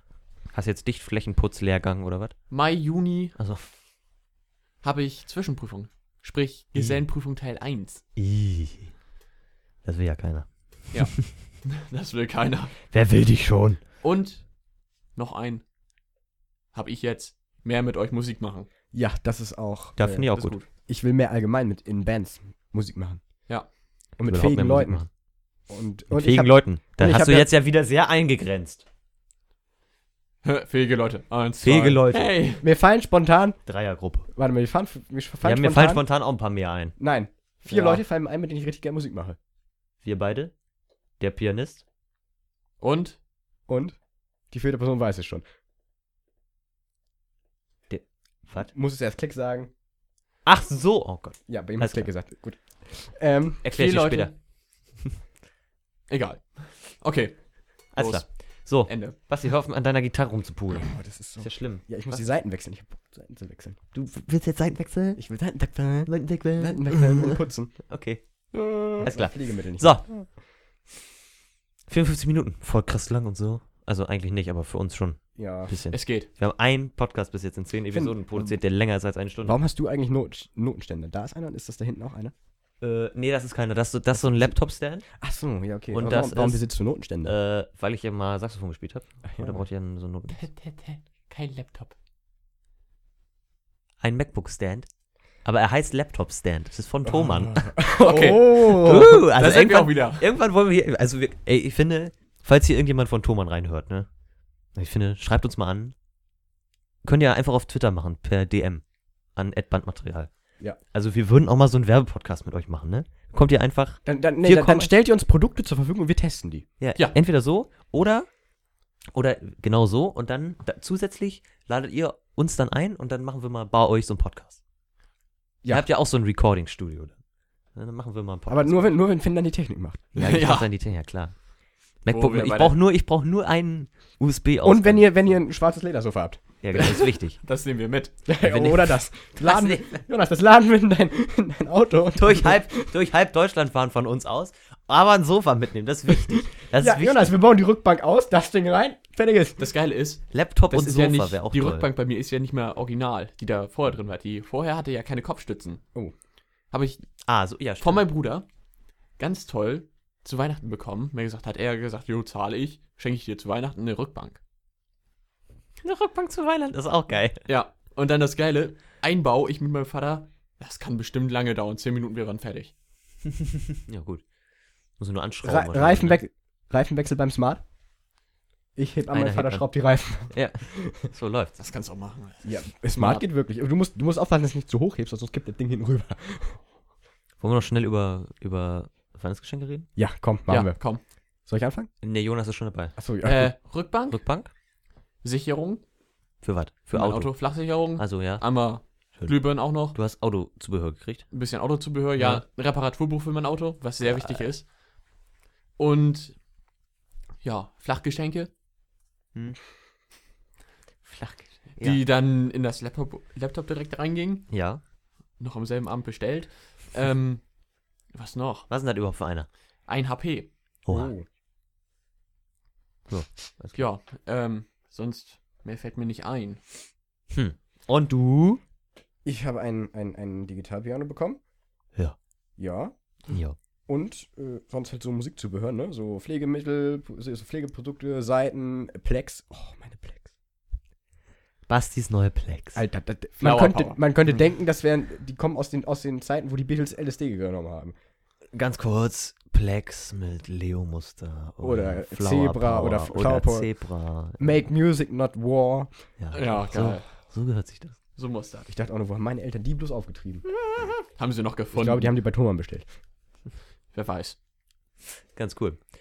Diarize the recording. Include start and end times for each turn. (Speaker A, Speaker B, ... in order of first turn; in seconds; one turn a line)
Speaker A: 0.5-2.4
Speaker B: 2.5-3.4
Speaker A: 3.4-3.7
Speaker B: 4.8-8.0
Speaker A: 6.7-7.0
Speaker A: 8.2-8.9
Speaker A: 9.8-11.2
Speaker B: 10.9-12.8
Speaker A: 12.9-13.8
Speaker B: 14.0-14.5
Speaker B: 15.1-15.6
Speaker B: 16.7-18.7
Speaker C: 18.9-23.2
Speaker A: 20.0-20.6
Speaker B: 20.3-20.6
Speaker C: 24.2-25.0
Speaker A: 24.2-25.1
Speaker C: 25.7-27.5
Speaker A: 26.1-28.8
Speaker B: 30.4-32.6
Speaker A: 31.6-32.3
Speaker C: 32.6-33.6
Speaker A: 33.6-34.3
Speaker C: 34.3-36.0
Speaker A: 35.4-36.9
Speaker C: 37.0-39.4
Speaker B: 37.6-38.0
Speaker A: 40.0-40.5
Speaker A: 41.2-41.8
Speaker B: 42.8-43.2
Speaker C: 43.7-44.0
Speaker C: 44.5-45.4
Speaker A: 47.9-48.7
Speaker C: 48.7-49.7
Speaker A: 50.5-52.1
Speaker C: 51.5-53.6
Speaker A: 53.6-54.3
Speaker B: 53.6-54.3
Speaker B: 56.1-59.1
Speaker A: 57.9-61.9
Speaker C: 60.9-63.8
Speaker A: 63.9-65.2
Speaker C: 65.2-67.9
Speaker A: 66.0-70.1
Speaker C: 68.5-70.3
Speaker A: 71.9-79.6
Speaker C: 75.3-75.7
Speaker B: 75.9-76.3
Speaker C: 77.9-78.5
Speaker C: 79.4-82.3
Speaker A: 82.8-85.1
Speaker C: 84.1-84.5
Speaker C: 85.2-87.3
Speaker A: 85.9-86.6
Speaker A: 87.2-90.4
Speaker C: 89.2-89.6
Speaker B: 90.3-91.9
Speaker A: 94.0-94.9
Speaker A: 95.4-97.8
Speaker C: 97.0-99.2
Speaker B: 98.0-100.2
Speaker A: 98.6-104.1
Speaker A: 104.7-105.9
Speaker A: 107.0-108.8
Speaker A: 109.3-110.3
Speaker A: 110.9-114.9
Speaker C: 114.0-116.7
Speaker A: 116.8-118.3
Speaker A: 119.1-124.6
Speaker A: 125.7-127.2
Speaker A: 127.7-128.9
Speaker C: 128.5-130.1
Speaker A: 130.1-131.3
Speaker B: 130.2-130.7
Speaker A: 132.0-135.1
Speaker B: 132.1-132.8
Speaker C: 134.6-136.4
Speaker A: 136.6-137.4
Speaker B: 136.7-138.2
Speaker C: 138.2-142.9
Speaker A: 138.4-140.0
Speaker A: 142.1-147.3
Speaker C: 146.7-149.6
Speaker B: 149.6-155.8
Speaker A: 150.3-151.9
Speaker B: 156.7-157.1
Speaker A: 157.2-158.0
Speaker B: 157.8-158.4
Speaker B: 159.2-164.4
Speaker A: 165.8-167.4
Speaker B: 167.4-172.7
Speaker A: 173.8-174.2
Speaker A: 175.0-176.2
Speaker C: 175.4-177.6
Speaker C: 178.8-181.1
Speaker A: 179.1-179.7
Speaker A: 180.3-181.5
Speaker B: 181.6-183.2
Speaker C: 182.4-186.6
Speaker A: 187.4-189.9
Speaker C: 189.9-190.8
Speaker B: 190.5-191.0
Speaker C: 191.4-191.9
Speaker A: 192.0-192.9
Speaker C: 193.0-193.5
Speaker B: 193.2-194.2
Speaker A: 194.1-194.5
Speaker B: 195.2-195.8
Speaker A: 196.4-197.4
Speaker B: 196.9-200.0
Speaker A: 197.9-198.4
Speaker A: 199.1-201.2
Speaker B: 201.3-204.7
Speaker A: 202.2-202.4
Speaker A: 204.0-204.5
Speaker B: 205.8-206.4
Speaker B: 207.4-208.5
Speaker A: 211.0-212.0
Speaker B: 211.8-214.5
Speaker A: 214.5-214.8
Speaker B: 215.4-217.4
Speaker B: 218.1-218.7
Speaker A: 218.7-219.5
Speaker B: 219.9-220.5
Speaker A: 220.8-221.1
Speaker C: 220.9-221.2
Speaker A: 223.1-223.8
Speaker B: 223.7-226.6
Speaker A: 227.3-228.6
Speaker C: 229.2-231.4
Speaker C: 232.6-232.9
Speaker A: 233.3-233.6
Speaker C: 233.9-240.3
Speaker A: 241.7-242.8
Speaker C: 242.7-247.9
Speaker B: 243.4-244.0
Speaker A: 248.5-254.6
Speaker C: 251.6-253.7
Speaker C: 254.4-255.9
Speaker A: 256.2-258.0
Speaker B: 256.3-257.0
Speaker B: 258.1-258.7
Speaker C: 258.7-260.4
Speaker B: 261.1-262.1
Speaker C: 261.7-262.9
Speaker B: 263.9-264.4
Speaker A: 265.3-265.8